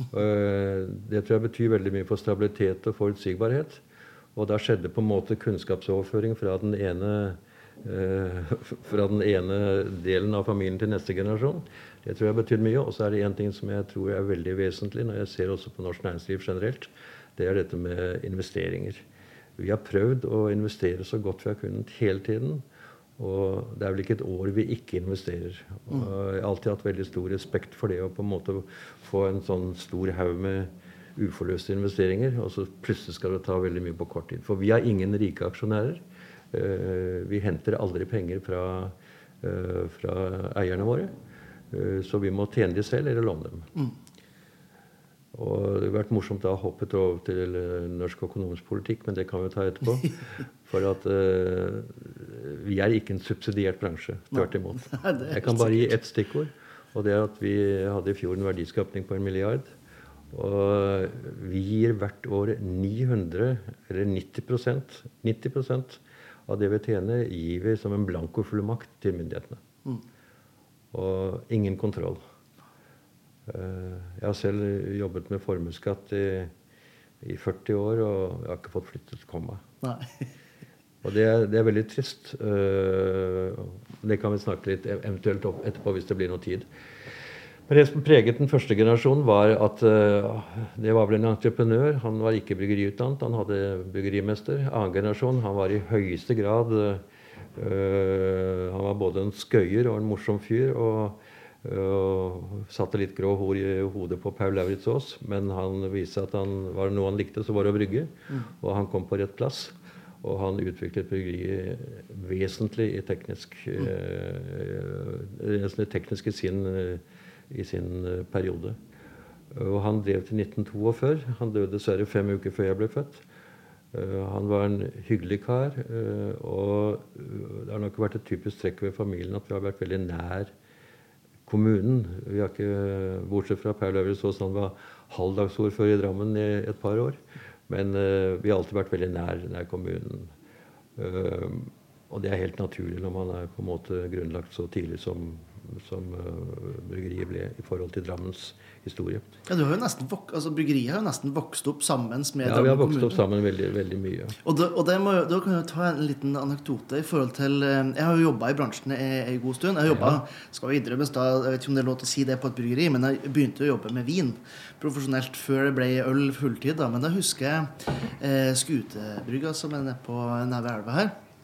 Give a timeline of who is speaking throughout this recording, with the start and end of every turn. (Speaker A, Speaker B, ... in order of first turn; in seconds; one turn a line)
Speaker A: 0.1-3.8
Speaker A: 4.3-19.0
Speaker A: 19.6-22.6
Speaker A: 23.2-36.0
Speaker A: 36.5-41.1
Speaker A: 41.7-43.7
Speaker A: 45.3-59.7
Speaker B: 54.3-55.9
Speaker A: 60.3-69.6
Speaker A: 70.9-72.2
Speaker A: 73.5-76.5
Speaker A: 77.2-79.6
Speaker B: 79.8-80.2
Speaker A: 81.0-86.7
Speaker A: 87.7-97.0
Speaker A: 97.5-118.8
Speaker A: 119.5-123.2
Speaker A: 123.9-130.5
Speaker A: 131.5-140.3
Speaker A: 141.0-149.3
Speaker B: 149.5-153.2
Speaker A: 152.4-154.4
Speaker B: 154.4-171.2